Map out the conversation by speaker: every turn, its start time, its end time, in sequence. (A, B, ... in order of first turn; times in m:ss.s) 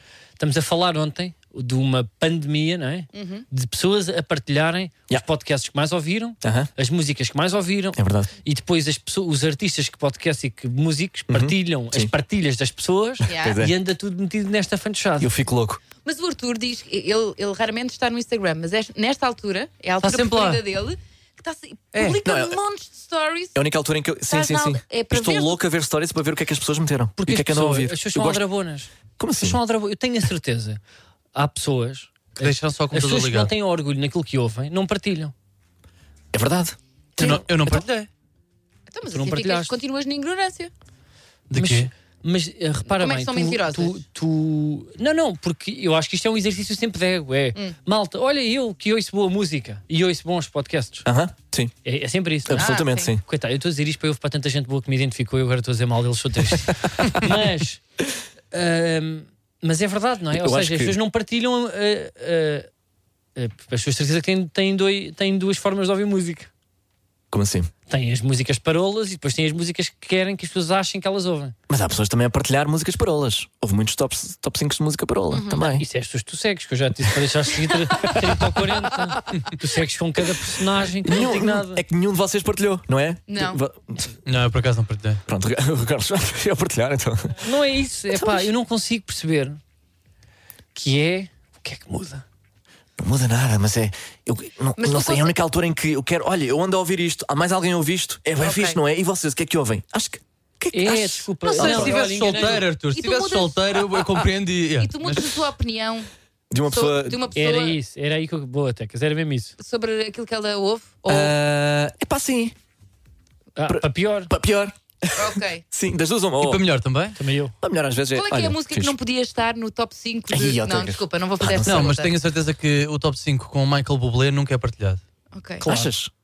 0:00.4-0:15.3 A
0:03.1-0:03.4 B
0:06.4-0:06.7 C
0:08.0-0:08.3 C
0:11.3-0:12.1 C
0:13.3-0:13.6 B
0:13.3-0:13.8 C
0:15.2-0:15.8 C
0:16.0-0:23.6 B
0:20.0-0:20.6 D
0:21.9-0:22.2 D
0:22.2-0:22.6 C
0:23.6-0:28.4 C
0:24.3-0:25.6 B
0:27.2-0:30.8 A
0:29.2-0:29.6 C
0:31.4-0:35.3 A
0:32.4-0:33.5 D
0:36.3-0:36.8 C
0:37.2-0:38.1 D
0:38.9-0:40.7 B
0:39.1-0:39.8 A
0:41.5-0:41.9 D
0:41.5-0:51.1 A
0:42.9-0:44.0 B
0:51.0-0:51.7 C
0:51.8-0:57.8 A
0:52.5-0:53.2 C
0:52.5-0:53.1 B
0:57.0-0:57.3 C
0:58.5-1:02.7 A
1:00.3-1:01.0 C
1:03.4-1:06.5 A
1:07.3-1:07.7 C
1:07.9-1:11.6 A
1:11.7-1:15.9 C
1:15.3-1:15.8 B
1:15.8-1:21.8 A
1:17.9-1:18.4 C
1:21.0-1:24.1 C
1:23.3-1:23.6 B
1:24.3-1:25.2 D
1:25.3-1:27.5 C
1:27.4-1:29.6 A
1:30.8-1:32.2 A
1:33.0-1:41.9 C
1:34.8-1:35.3 B
1:38.4-1:38.8 B
1:40.7-1:42.6 A
1:41.4-1:43.6 B
1:41.6-1:45.4 D
1:44.8-1:46.1 B
1:46.5-1:47.2 C
1:46.7-1:47.8 B
1:47.3-1:49.6 A
1:49.6-1:51.4 B
1:51.1-1:52.6 C
1:53.6-1:54.3 A
1:53.7-1:56.6 C
1:55.2-1:55.6 B
1:56.4-1:57.2 D
1:57.2-1:57.5 A
1:57.6-1:59.0 C
1:58.1-2:02.2 B
2:00.3-2:01.9 C
2:01.6-2:05.0 D
2:05.3-2:05.7 B
2:05.6-2:05.9 A
2:05.6-2:06.1 C